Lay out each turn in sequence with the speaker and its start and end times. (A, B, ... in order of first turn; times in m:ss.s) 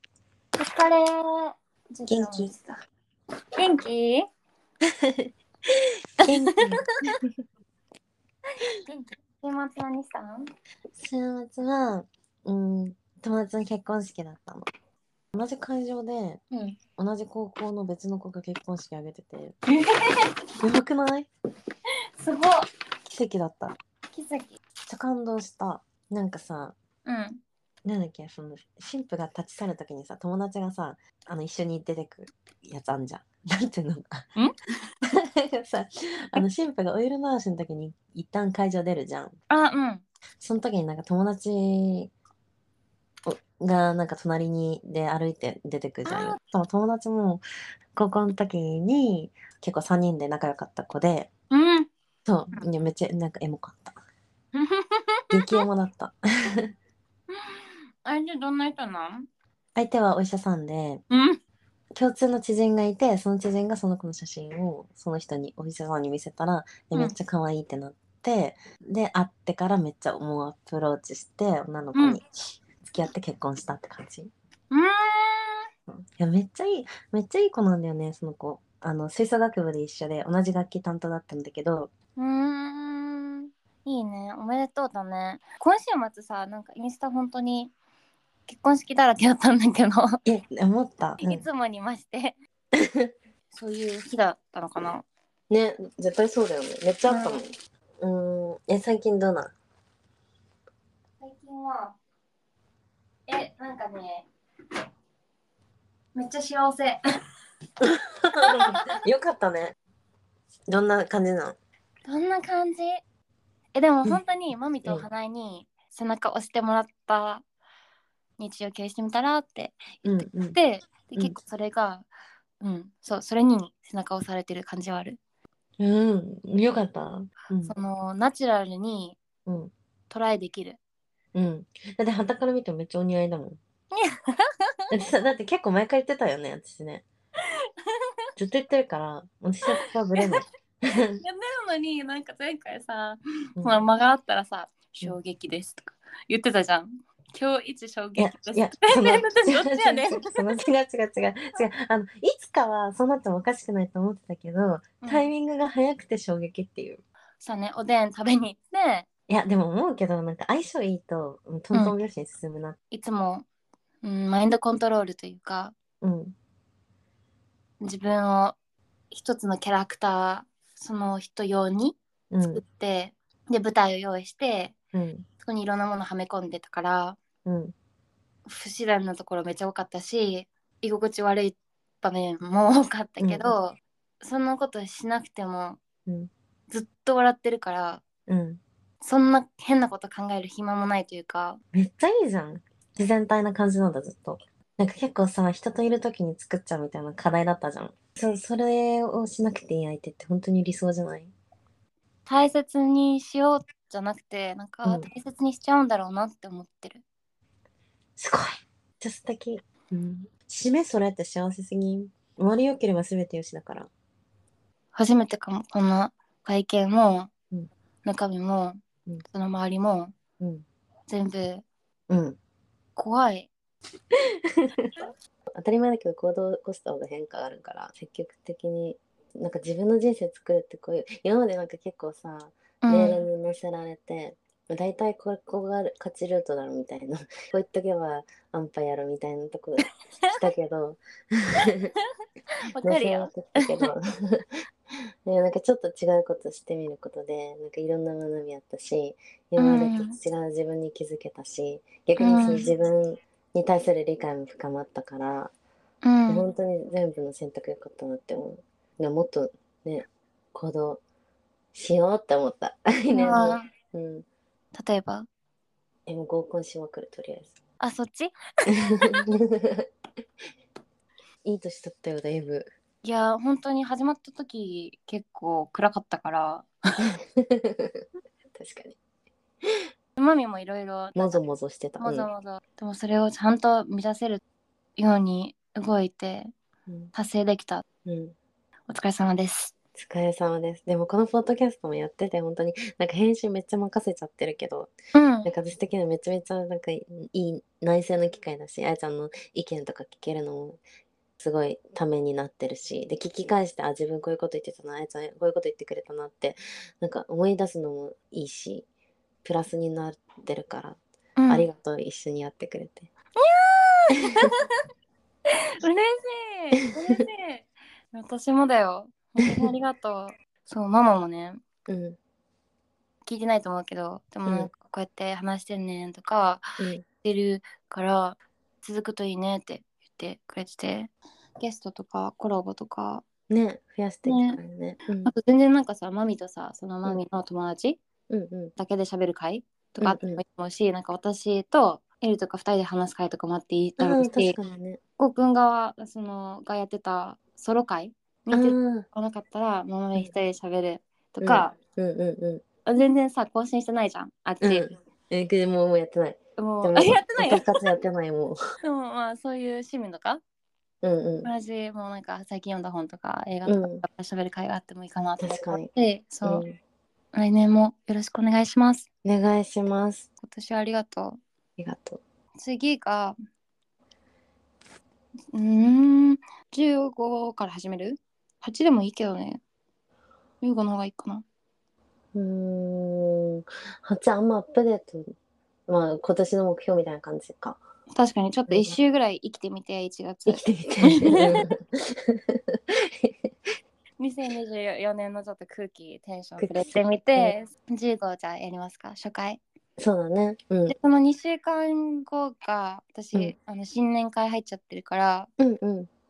0:00.6-0:02.8 A
0:02.1-0:02.5 B
0:03.6-0:04.2 A
0:05.0-0:05.3 B
0:06.2-0:07.3 B
0:06.3-0:06.7 A
0:08.8-0:10.5 A
0:11.0-0:14.7 B
0:15.3-0:16.4 B
0:16.5-0:16.8 A
0:17.0-0:19.6 B
0:19.7-0:20.2 A
0:20.6-0:21.3 B
0:22.2-0:22.6 A
0:23.1-0:23.7 B
0:24.1-0:24.6 A
0:24.9-0:26.8 B
0:27.0-0:27.4 A
0:27.8-0:34.3 B
0:35.1-0:39.4 B
0:39.5-0:40.0 A
0:40.4-0:42.1 B
0:43.2-0:47.4 B
0:46.0-0:46.4 A
0:47.9-0:51.3 B
0:51.5-0:51.9 A
0:52.2-0:54.0 B
0:54.5-0:55.6 A
0:55.3-0:56.7 B
0:57.3-0:59.2 A
0:59.8-1:01.0 B
1:01.1-1:01.4 A
1:02.0-1:12.2 B
1:11.9-1:12.2 A
1:12.8-1:14.3 B
1:14.7-1:15.6 A
1:15.9-1:21.9 B
1:22.2-1:27.7 A
1:28.5-1:30.2 A
1:30.2-1:31.4 B
1:31.2-1:32.4 A
1:32.8-1:33.1 B
1:33.5-1:35.0 A
1:35.5-1:39.5 B
1:37.1-1:37.4 A
1:41.2-1:42.0 A
1:43.3-1:44.3 A
1:46.1-1:47.0 A
1:47.8-1:49.8 B
1:48.4-1:48.7 A
1:50.7-1:51.6 B
1:52.0-1:53.0 A
1:53.7-1:57.4 A
1:58.4-2:02.1 A
2:00.0-2:00.6 B
2:02.6-2:05.2 A
2:05.8-2:07.7 B
2:07.6-2:09.2 A
2:09.4-2:09.7 B
2:10.1-2:10.8 A
2:11.3-2:13.6 B
2:13.9-2:14.9 A
2:14.9-2:17.0 B
2:18.4-2:21.2 B
2:19.7-2:20.2 A
2:21.2-2:30.5 A
2:28.2-2:37.0 B
2:35.0-2:35.3 A
2:37.4-2:39.1 A
2:39.3-2:42.8 B
2:42.9-2:43.4 A
2:44.0-2:45.7 A
2:46.0-2:46.3 B
2:47.8-2:48.6 A
2:49.1-2:52.0 A
2:52.3-2:52.6 B
2:52.6-2:54.7 A
2:54.9-2:55.2 B
2:55.4-2:57.2 A
2:57.4-2:57.7 B
2:58.4-3:05.8 A
3:03.2-3:03.5 B
3:06.7-3:08.0 A
3:08.3-3:08.6 B
3:09.0-3:11.6 A
3:11.7-3:21.3 B
3:22.2-3:27.0 A
3:28.2-3:33.9 B
3:34.9-3:37.3 A
3:38.0-3:40.1 A
3:40.4-3:40.6 B
3:41.1-3:41.6 A
3:42.1-3:42.4 B
3:43.0-3:43.5 A
3:44.5-3:44.9 B
3:45.5-4:01.9 B
3:52.8-3:53.2 A
4:02.7-4:03.9 A
4:02.8-4:04.6 B
4:05.2-4:15.5 B
4:09.6-4:10.2 A
4:12.2-4:12.7 A
4:16.0-4:16.4 A
4:16.3-4:21.0 B
4:21.7-4:24.2 B
4:23.1-4:23.6 A
4:24.7-4:25.3 A
4:26.1-4:27.6 B
4:27.8-4:29.2 A
4:29.0-4:29.8 B
4:31.4-4:32.7 B
4:33.0-4:37.0 A
4:37.3-4:38.0 B
4:38.5-4:39.0 B
4:40.2-4:41.4 A
4:41.1-4:42.3 B
4:42.0-4:44.4 A
4:45.0-4:46.5 A
4:46.9-4:47.1 B
4:47.1-4:47.8 A
4:48.0-4:48.3 B
4:48.9-4:49.7 A
4:49.9-5:00.8 B
4:55.1-4:55.5 A
5:01.4-5:08.9 B
5:09.4-5:13.1 B
5:11.4-5:11.7 A
5:13.4-5:14.6 A
5:15.8-5:21.6 A
5:21.9-5:22.2 B
5:23.2-5:26.6 A
5:24.4-5:24.7 B
5:26.8-5:27.0 B
5:27.2-5:33.2 A
5:33.5-5:35.3 B
5:34.2-5:34.6 A
5:35.2-5:38.0 A
5:38.3-5:38.7 B
5:38.8-5:44.6 A
5:40.0-5:40.4 B
5:44.0-5:45.0 B
5:45.2-5:51.8 A
5:48.5-5:49.1 B
5:51.4-5:52.6 B
5:52.8-5:54.9 A
5:54.6-5:58.6 B
5:56.6-5:57.8 A
5:58.8-6:00.4 A
6:01.0-6:01.5 B
6:01.4-6:06.6 A
6:03.6-6:04.0 B
6:05.4-6:05.9 B
6:06.4-6:06.8 B
6:07.3-6:09.0 A
6:09.2-6:10.3 B
6:10.4-6:11.4 A
6:11.8-6:12.2 B
6:12.6-6:13.4 A
6:15.5-6:19.6 A
6:20.6-6:21.4 A
6:22.3-6:25.3 B
6:25.9-6:27.8 B
6:28.2-6:31.6 A
6:28.7-6:29.0 B
6:30.4-6:33.7 B
6:34.2-6:39.6 A
6:36.6-6:37.5 B
6:40.0-6:40.9 B
6:40.9-6:45.5 A
6:45.6-6:46.1 B